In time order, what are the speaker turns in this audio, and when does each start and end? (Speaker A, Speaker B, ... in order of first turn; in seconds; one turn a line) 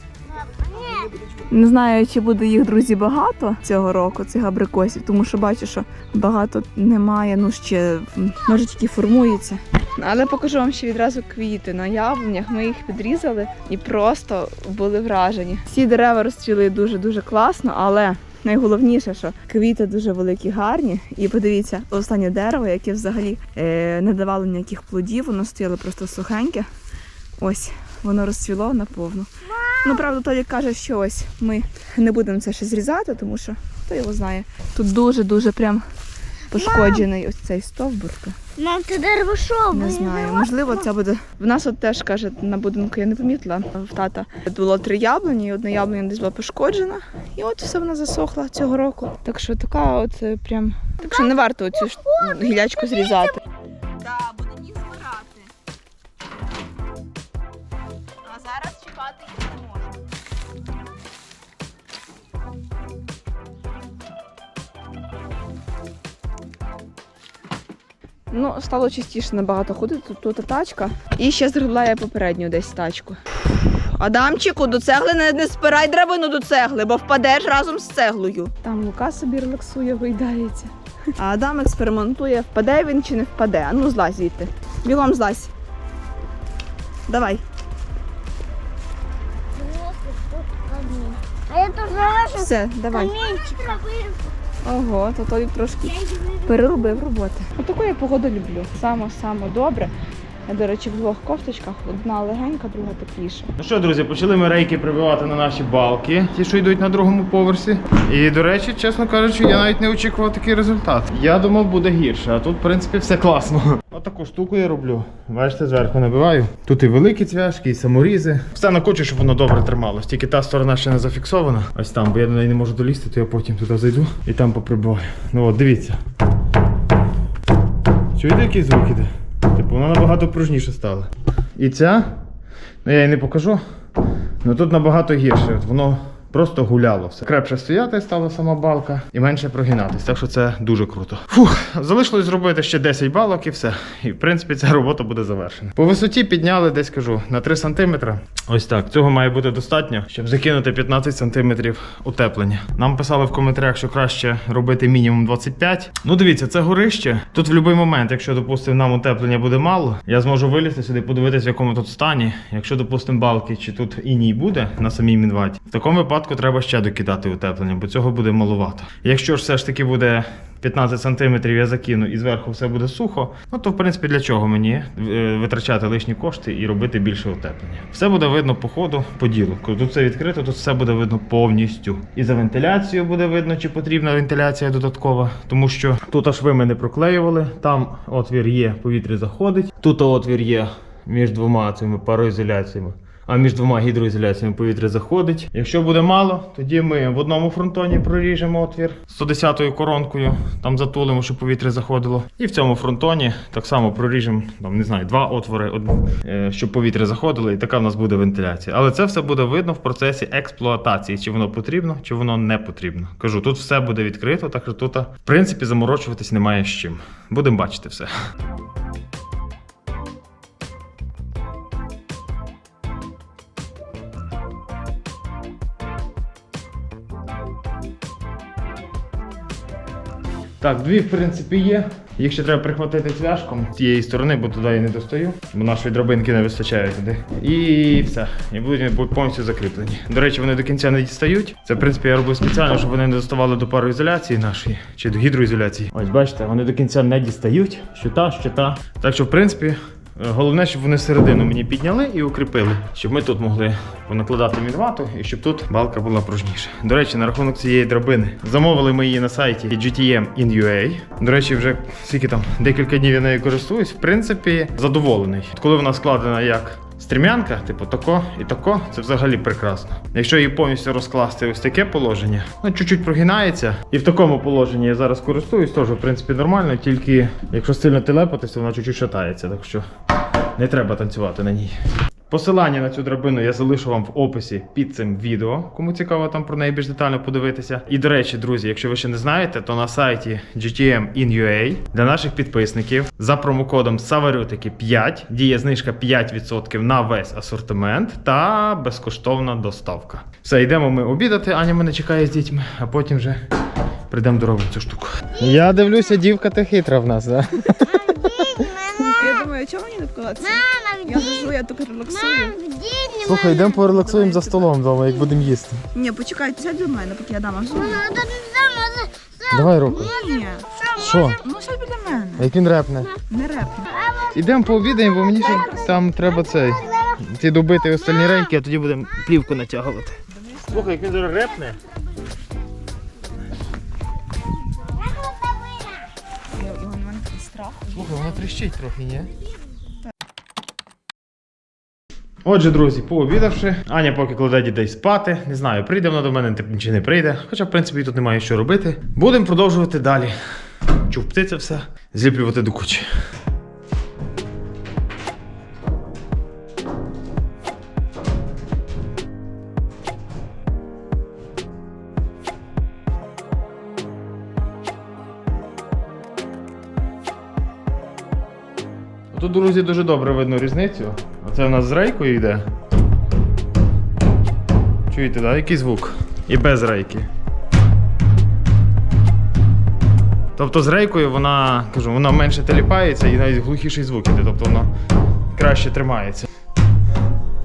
Speaker A: 0.3-1.1
Speaker B: 0.6-26.7
Speaker B: 27.4-29.3
Speaker A: 29.5-30.1
Speaker B: 29.8-35.9
Speaker B: 36.5-38.4
Speaker A: 36.5-37.1
Speaker A: 38.6-40.9
Speaker B: 39.7-53.4
Speaker B: 54.0-55.5
Speaker B: 58.2-60.0
Speaker B: 68.3-73.2
Speaker B: 73.7-85.5
Speaker B: 87.1-87.4
Speaker A: 89.5-94.2
Speaker B: 92.0-93.4
Speaker B: 94.6-99.9
Speaker A: 95.9-96.8
Speaker B: 100.5-103.5
Speaker C: 103.6-126.0
Speaker C: 128.1-132.2
Speaker C: 132.8-133.6
Speaker C: 134.4-218.1
Speaker C: 230.6-279.9
Speaker C: 280.6-281.8
Speaker C: 282.3-303.4
Speaker C: 304.1-308.7
Speaker A: 307.8-309.5
Speaker B: 309.2-312.6
Speaker A: 310.4-311.5
Speaker A: 312.1-313.8
Speaker C: 313.2-315.8
Speaker B: 313.6-314.7
Speaker B: 315.9-318.1
Speaker A: 317.7-320.8
Speaker C: 319.5-320.1
Speaker B: 319.9-322.5
Speaker C: 321.0-321.4
Speaker C: 322.4-323.1
Speaker B: 323.3-323.9
Speaker A: 324.0-327.2
Speaker C: 324.3-331.8
Speaker B: 325.4-325.9
Speaker B: 330.3-330.9
Speaker A: 334.9-336.0
Speaker B: 336.5-338.4
Speaker C: 337.9-339.3
Speaker C: 342.4-350.4
Speaker C: 351.0-353.1
Speaker C: 369.3-372.7
Speaker C: 375.1-377.3
Speaker C: 380.6-384.9
Speaker C: 385.5-386.5